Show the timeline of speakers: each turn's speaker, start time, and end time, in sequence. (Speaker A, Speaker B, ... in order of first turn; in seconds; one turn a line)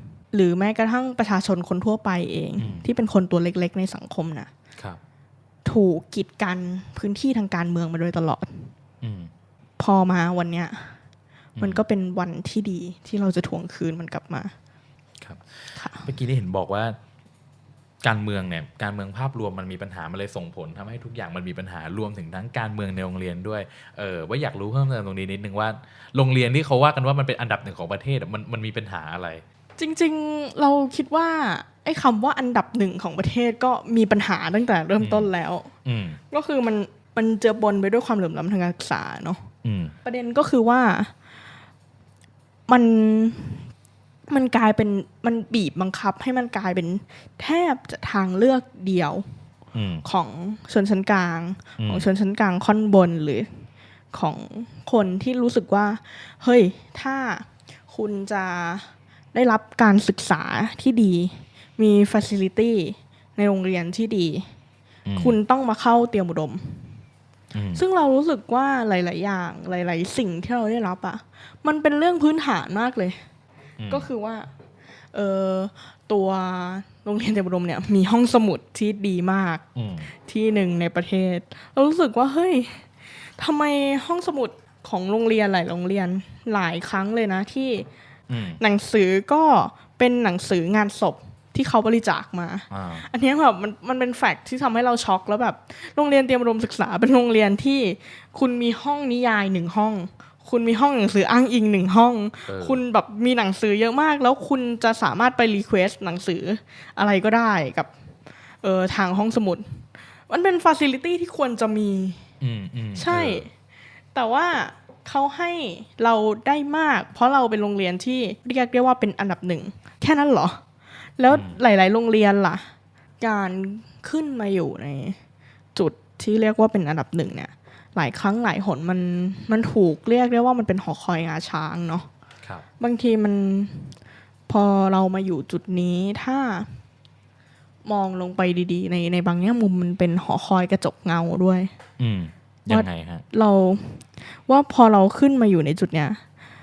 Speaker A: 0.3-4.5
Speaker B: 2.6-2.9
Speaker A: 5.6-8.7
Speaker B: 9.0-9.3
Speaker A: 9.8-10.9
Speaker B: 11.6-11.8
Speaker A: 11.6-14.5
Speaker B: 15.2-17.0
Speaker A: 15.7-16.1
Speaker B: 18.0-29.4
Speaker A: 29.8-35.7
Speaker B: 35.0-35.3
Speaker B: 35.8-36.2
Speaker A: 36.3-39.5
Speaker B: 39.6-39.9
Speaker A: 40.0-41.1
Speaker A: 42.7-43.7
Speaker A: 44.3-49.2
Speaker B: 49.7-50.0
Speaker A: 50.0-53.6
Speaker B: 51.8-52.1
Speaker A: 54.1-64.5
Speaker B: 65.0-65.4
Speaker A: 65.2-67.0
Speaker B: 67.5-67.8
Speaker A: 67.7-73.2
Speaker B: 73.8-74.1
Speaker A: 73.9-74.5
Speaker A: 75.1-79.6
Speaker B: 79.7-80.1
Speaker A: 80.2-87.9
Speaker B: 88.3-88.6
Speaker A: 88.6-107.9
Speaker B: 92.7-93.1
Speaker B: 102.5-102.8
Speaker A: 108.6-112.2
Speaker B: 112.4-113.5
Speaker A: 112.9-113.5
Speaker A: 114.1-120.6
Speaker A: 121.2-125.2
Speaker B: 121.3-121.6
Speaker A: 125.7-132.1
Speaker A: 132.8-133.9
Speaker A: 134.5-136.8
Speaker A: 137.8-141.7
Speaker B: 142.0-143.2
Speaker A: 142.7-146.2